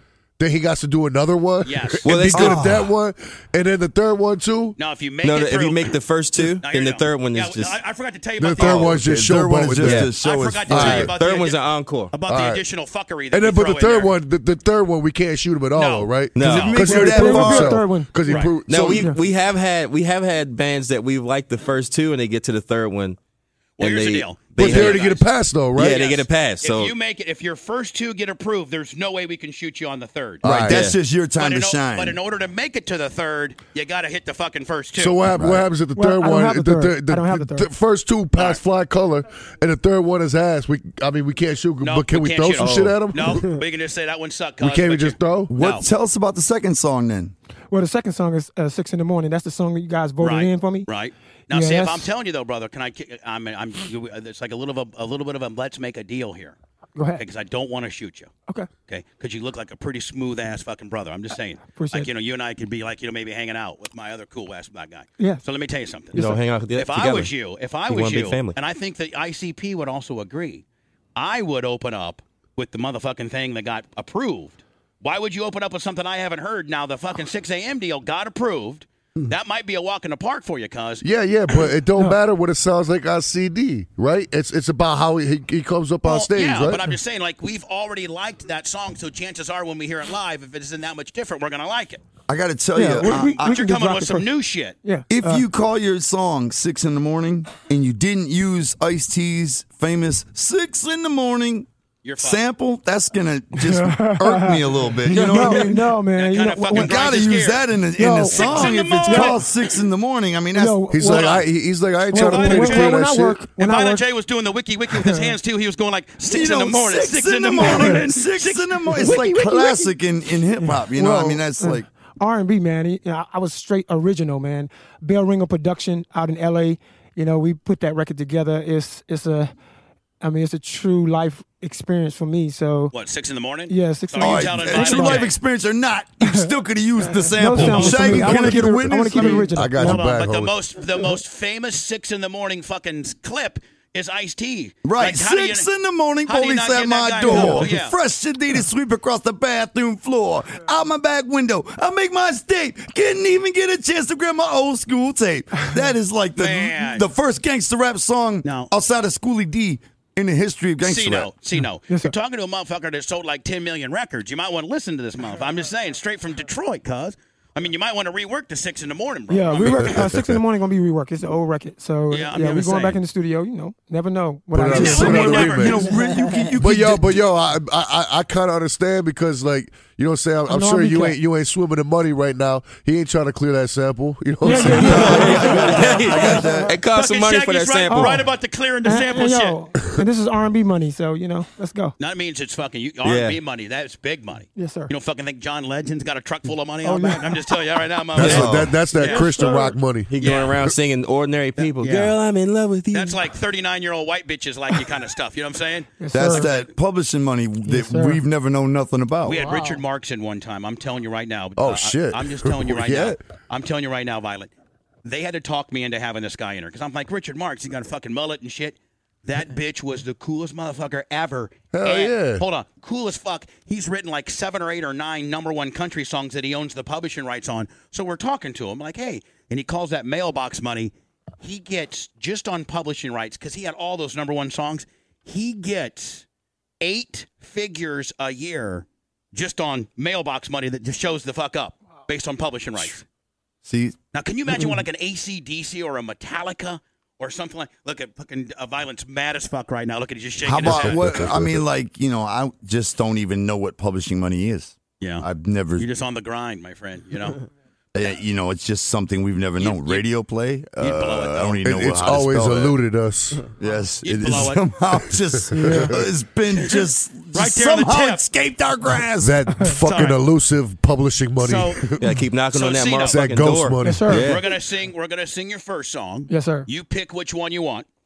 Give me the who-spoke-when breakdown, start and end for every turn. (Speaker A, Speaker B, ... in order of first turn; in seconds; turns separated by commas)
Speaker A: 0.4-4.8, Speaker B: 1.6-2.2, Speaker C: 2.0-2.6, Speaker D: 2.3-2.9, Speaker B: 4.8-6.0, Speaker C: 5.2-7.8, Speaker B: 6.6-9.0, Speaker A: 8.4-10.1, Speaker D: 8.6-11.1, Speaker C: 9.8-10.1, Speaker B: 10.2-14.2, Speaker A: 10.7-11.1, Speaker C: 10.7-12.1, Speaker A: 12.3-12.6, Speaker A: 13.3-19.1, Speaker B: 15.7-16.6, Speaker C: 16.3-16.8, Speaker D: 16.4-17.9, Speaker E: 16.8-18.4, Speaker B: 18.2-18.5, Speaker C: 18.6-23.2, Speaker B: 23.8-30.4, Speaker C: 23.8-25.1, Speaker A: 24.6-26.0, Speaker C: 25.8-26.9, Speaker A: 30.4-30.8, Speaker D: 30.4-32.2, Speaker C: 30.5-31.0, Speaker B: 31.4-35.2, Speaker A: 35.0-43.5, Speaker D: 35.4-35.6, Speaker E: 35.9-37.7, Speaker B: 38.3-38.6, Speaker B: 41.8-45.9, Speaker C: 42.6-43.0, Speaker A: 44.6-45.5, Speaker D: 45.5-47.3, Speaker E: 47.7-50.9, Speaker B: 50.2-56.6, Speaker E: 51.5-52.1, Speaker E: 57.0-57.2, Speaker B: 57.1-58.3, Speaker B: 58.9-70.6, Speaker E: 61.7-62.1, Speaker E: 66.1-66.4, Speaker C: 66.1-67.3, Speaker C: 67.8-68.6, Speaker B: 71.2-81.0, Speaker A: 81.0-86.8, Speaker B: 86.0-92.0, Speaker D: 92.3-93.6, Speaker E: 92.7-94.3, Speaker B: 93.2-94.8, Speaker E: 94.8-95.4, Speaker D: 95.1-101.7, Speaker B: 102.0-102.4, Speaker D: 102.2-105.9, Speaker E: 103.5-107.4, Speaker B: 105.2-107.6, Speaker D: 106.7-110.8, Speaker E: 108.0-109.4, Speaker B: 108.3-109.4, Speaker E: 110.5-111.3, Speaker A: 110.9-113.4, Speaker B: 111.1-111.4, Speaker E: 112.1-114.0, Speaker B: 112.1-113.0, Speaker B: 113.6-119.3, Speaker E: 114.9-115.3, Speaker D: 116.2-121.8, Speaker E: 117.5-118.1, Speaker E: 119.0-119.9, Speaker E: 120.6-129.5, Speaker E: 130.2-132.9, Speaker B: 132.9-135.3, Speaker E: 133.7-135.3, Speaker D: 134.2-139.6, Speaker E: 137.1-140.1, Speaker A: 137.6-140.6, Speaker B: 137.6-138.0, Speaker B: 139.7-145.7, Speaker D: 144.8-161.3, Speaker B: 146.2-147.9, Speaker E: 147.3-147.6, Speaker B: 156.3-157.1, Speaker B: 158.4-158.7, Speaker B: 160.8-170.0, Speaker E: 161.9-162.1, Speaker E: 169.3-175.6, Speaker A: 169.9-170.3, Speaker B: 172.1-173.0, Speaker A: 174.5-175.9, Speaker D: 174.6-177.1, Speaker B: 174.7-175.9, Speaker A: 176.6-185.3, Speaker E: 180.5-181.2, Speaker E: 184.4-186.6, Speaker B: 184.5-189.6, Speaker C: 184.7-188.2, Speaker D: 184.9-186.7, Speaker E: 187.9-188.3, Speaker E: 188.8-191.9, Speaker B: 192.0-199.4, Speaker C: 193.0-193.4, Speaker E: 194.5-194.9, Speaker E: 196.8-197.4, Speaker A: 198.2-200.7, Speaker C: 198.2-198.5, Speaker D: 198.2-198.8, Speaker C: 199.1-199.5, Speaker C: 200.1-203.2, Speaker B: 200.2-200.5, Speaker B: 201.6-202.2, Speaker B: 202.9-206.7, Speaker E: 206.0-206.5, Speaker D: 206.1-209.5, Speaker E: 207.7-208.2, Speaker B: 209.2-214.5, Speaker A: 211.6-213.2, Speaker B: 215.0-236.2, Speaker A: 221.7-222.4, Speaker B: 236.8-243.0, Speaker D: 243.6-243.9, Speaker B: 244.1-251.2, Speaker D: 250.4-255.9, Speaker A: 250.6-251.6, Speaker B: 255.0-255.2, Speaker B: 255.8-257.4, Speaker D: 257.9-262.8, Speaker B: 259.6-260.1, Speaker B: 260.8-261.6, Speaker A: 261.6-263.4, Speaker D: 263.6-269.5, Speaker B: 264.0-264.6, Speaker E: 265.5-266.0, Speaker A: 265.6-265.9, Speaker B: 267.3-268.2, Speaker A: 269.2-272.2, Speaker B: 269.8-270.2, Speaker B: 271.4-271.9, Speaker C: 272.0-274.5, Speaker B: 272.5-273.2, Speaker A: 273.0-274.2, Speaker E: 273.8-274.3, Speaker B: 274.1-277.9, Speaker E: 276.3-276.7